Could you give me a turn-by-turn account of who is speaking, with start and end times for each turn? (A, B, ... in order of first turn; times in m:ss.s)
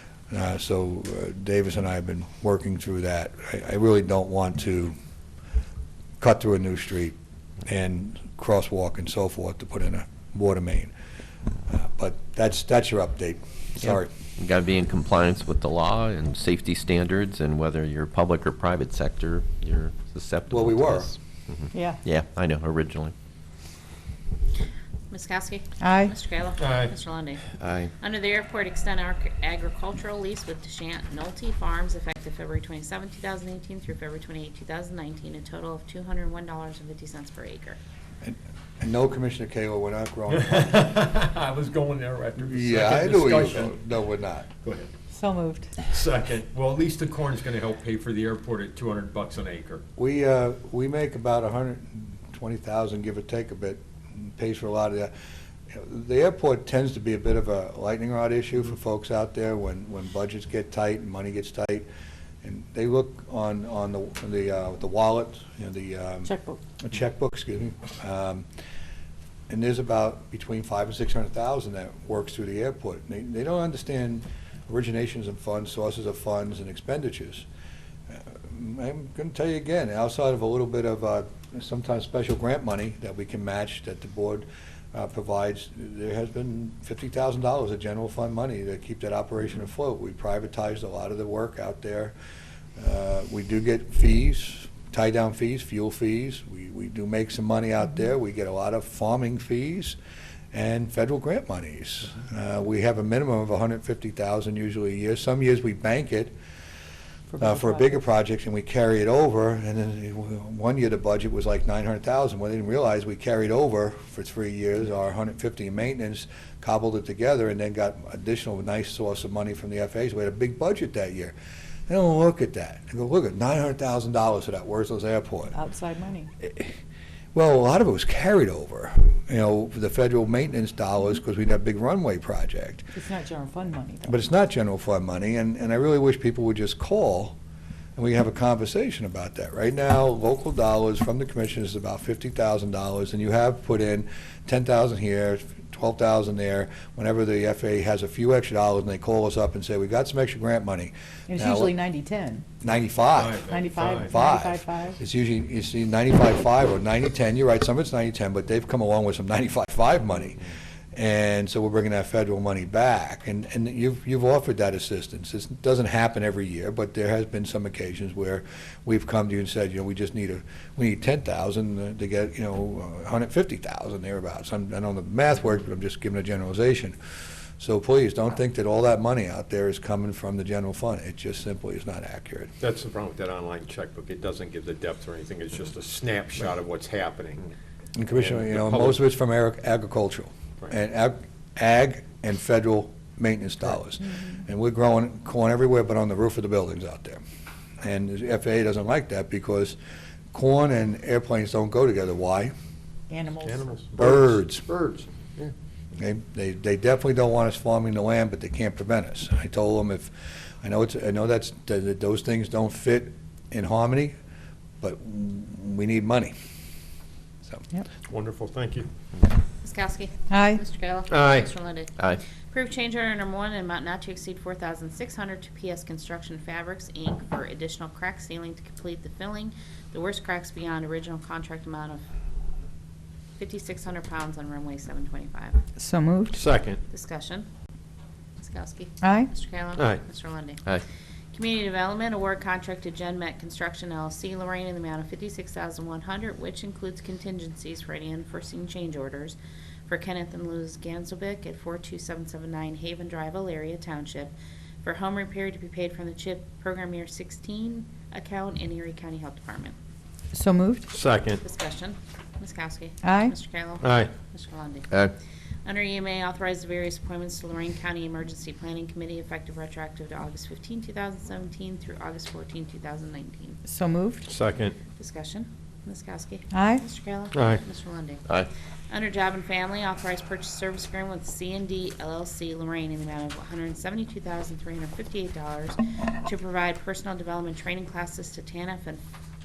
0:00.3-0:04.9 A
0:06.2-0:10.9 A
0:11.7-0:14.1 A
0:13.8-0:23.1 B
0:20.5-0:21.1 A
0:21.7-0:22.0 C
0:25.1-0:27.4 D
0:25.8-0:26.2 C
0:26.6-0:26.9 E
0:27.6-0:27.9 B
0:28.0-0:37.8 D
0:38.2-0:40.6 A
0:40.3-0:43.8 E
0:42.4-0:44.5 A
0:44.6-0:44.9 E
0:45.1-0:45.7 C
0:45.8-0:49.8 E
0:50.0-0:55.1 A
0:55.7-1:01.9 A
1:02.4-1:08.5 A
1:06.2-1:06.6 C
1:09.5-1:17.5 A
1:18.1-1:32.1 A
1:32.8-1:40.0 A
1:40.5-1:46.3 A
1:47.3-1:48.0 C
1:47.4-2:01.3 A
2:01.9-2:05.6 A
2:05.5-2:06.3 C
2:06.4-2:06.8 A
2:07.3-2:12.9 A
2:12.9-2:14.2 C
2:14.1-2:17.4 A
2:18.0-2:31.7 A
2:31.3-2:32.5 C
2:32.6-2:40.4 A
2:33.2-2:34.1 E
2:33.5-2:35.0 C
2:40.9-2:57.0 A
2:57.6-3:02.5 A
3:02.6-3:07.5 E
3:08.0-3:17.2 A
3:08.2-3:09.0 E
3:17.8-3:19.8 A
3:20.3-3:22.5 A
3:23.1-3:23.8 C
3:23.4-3:25.5 E
3:24.0-3:24.6 A
3:26.0-3:34.2 A
3:34.8-3:36.3 A
3:38.1-3:38.9 E
3:39.6-3:42.0 D
3:40.3-3:40.6 C
3:41.1-3:41.5 E
3:42.5-3:52.0 D
3:53.4-3:55.6 D
3:55.8-3:56.4 C
3:56.3-3:56.8 E
3:56.9-3:57.5 D
3:58.4-4:00.6 D
3:59.0-3:59.3 C
3:59.8-4:00.0 E
4:01.3-4:09.4 D
4:09.9-4:19.8 D
4:20.3-4:20.9 C
4:20.9-4:21.4 E
4:21.4-4:24.9 D
4:23.0-4:23.4 C
4:23.8-4:24.1 E
4:25.6-4:33.6 D
4:33.7-4:34.3 C
4:34.3-4:34.8 E
4:35.0-4:38.2 D
4:36.5-4:36.8 C
4:37.3-4:37.6 E
4:38.9-4:49.0 D